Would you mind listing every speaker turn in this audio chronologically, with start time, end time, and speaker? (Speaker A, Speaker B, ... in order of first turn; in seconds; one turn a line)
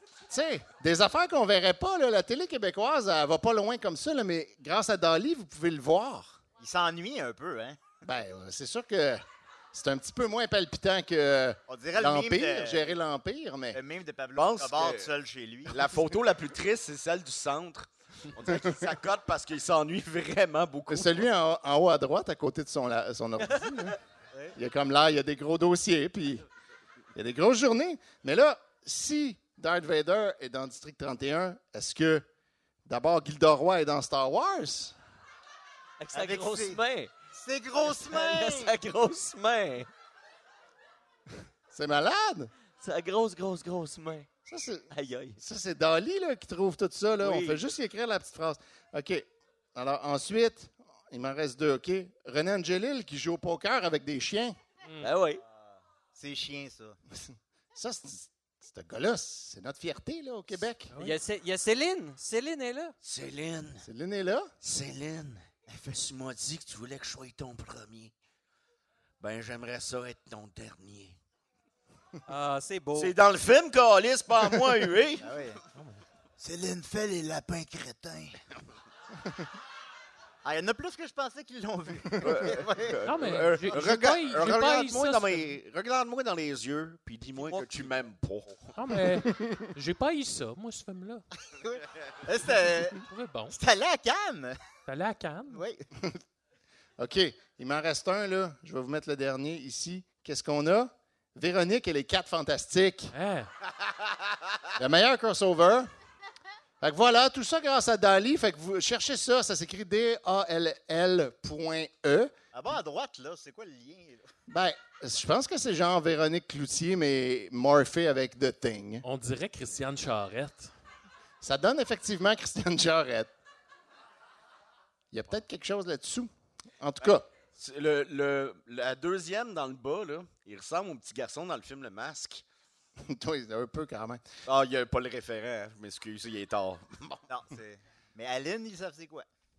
Speaker A: 0.3-6.4
Speaker B: 6.6-7.9
Speaker A: 8.0-13.8
Speaker B: 11.7-13.0
Speaker B: 13.7-16.0
Speaker C: 14.4-15.1
Speaker C: 15.7-21.3
Speaker A: 18.5-18.8
Speaker A: 20.9-24.0
Speaker A: 24.6-26.4
Speaker A: 27.1-32.2
Speaker A: 32.9-35.0
Speaker D: 36.0-37.1
Speaker B: 36.1-36.8
Speaker B: 37.3-38.8
Speaker D: 37.8-39.9
Speaker A: 41.7-42.5
Speaker D: 42.8-44.3
Speaker A: 44.5-44.9
Speaker D: 44.9-45.4
Speaker A: 45.4-54.6
Speaker D: 47.2-47.6
Speaker D: 55.0-55.4
Speaker B: 55.6-57.0
Speaker A: 57.3-60.9
Speaker E: 60.9-61.2
Speaker F: 61.0-62.9
Speaker C: 63.0-63.9
Speaker A: 63.8-64.5
Speaker C: 64.6-68.1
Speaker C: 69.2-71.2
Speaker F: 72.3-73.2
Speaker C: 72.9-75.3
Speaker B: 75.2-75.6
Speaker B: 76.4-78.4
Speaker B: 80.4-83.0
Speaker C: 82.2-88.8
Speaker E: 83.0-85.6
Speaker D: 87.4-87.9
Speaker E: 88.8-91.2
Speaker A: 89.2-89.7
Speaker B: 91.4-94.6
Speaker E: 92.8-93.6
Speaker E: 94.9-95.6
Speaker B: 95.5-95.9
Speaker A: 97.0-103.1
Speaker E: 103.1-103.5
Speaker C: 103.9-104.4
Speaker A: 104.8-105.9
Speaker A: 106.8-112.3
Speaker B: 112.5-114.3
Speaker A: 114.5-119.0
Speaker E: 119.0-120.7
Speaker A: 121.4-123.3
Speaker A: 125.1-127.3
Speaker C: 127.6-132.4
Speaker A: 133.1-134.2
Speaker C: 134.5-137.2
Speaker B: 137.3-139.3